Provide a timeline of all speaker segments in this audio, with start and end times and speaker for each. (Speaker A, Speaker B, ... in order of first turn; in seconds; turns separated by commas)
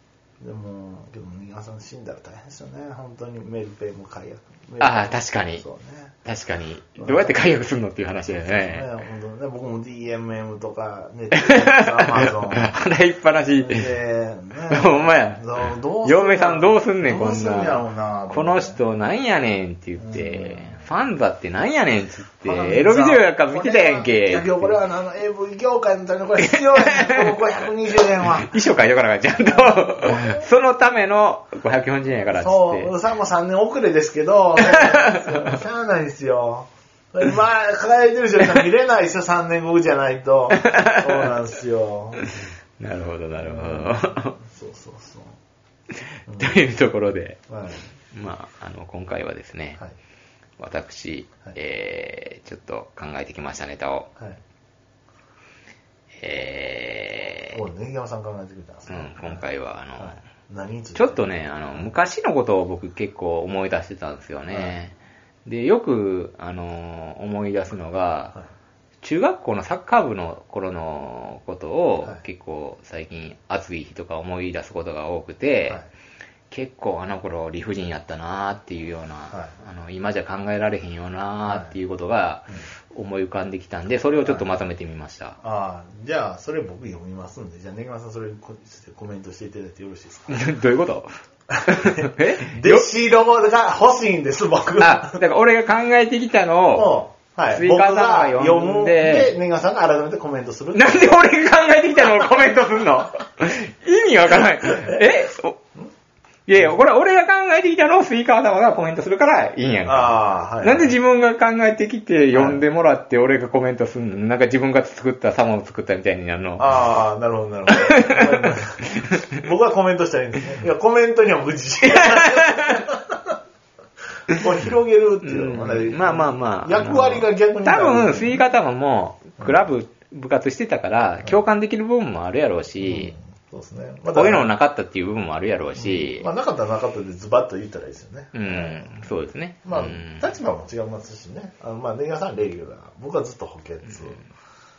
Speaker A: 0.4-6.2, Speaker B: 4.8-5.6, Speaker B: 6.2-8.9, Speaker A: 7.0-7.4, Speaker A: 8.3-12.8, Speaker B: 11.3-13.9, Speaker A: 13.6-18.8, Speaker B: 14.7-24.8, Speaker A: 20.0-20.8, Speaker A: 22.4-28.6, Speaker B: 26.4-27.4, Speaker B: 28.2-32.9, Speaker A: 29.4-30.4, Speaker A: 32.3-42.2, Speaker B: 34.7-35.5, Speaker B: 40.6-41.3, Speaker B: 42.8-44.4, Speaker A: 43.4-45.4, Speaker A: 46.3-46.6, Speaker B: 46.3-47.4, Speaker A: 47.5-47.9, Speaker B: 48.1-49.8, Speaker B: 50.6-54.1, Speaker B: 56.2-57.6, Speaker A: 57.5-59.4, Speaker B: 58.9-60.2, Speaker A: 60.0-61.9, Speaker B: 61.0-68.4, Speaker B: 69.0-75.8, Speaker B: 76.5-85.4, Speaker A: 81.5-81.8, Speaker A: 85.4-90.4, Speaker B: 90.3-91.1, Speaker A: 91.5-95.2, Speaker B: 91.7-92.9, Speaker B: 94.8-99.3, Speaker A: 96.7-101.3, Speaker B: 100.8-105.6, Speaker B: 106.5-116.7, Speaker A: 109.8-111.0, Speaker A: 112.3-112.6, Speaker A: 116.6-123.4, Speaker B: 117.7-118.6, Speaker B: 122.0-122.7, Speaker A: 124.3-128.4, Speaker B: 125.2-133.2, Speaker A: 132.8-134.5, Speaker B: 134.1-136.3, Speaker A: 135.8-139.1, Speaker B: 138.3-140.3, Speaker A: 139.7-144.2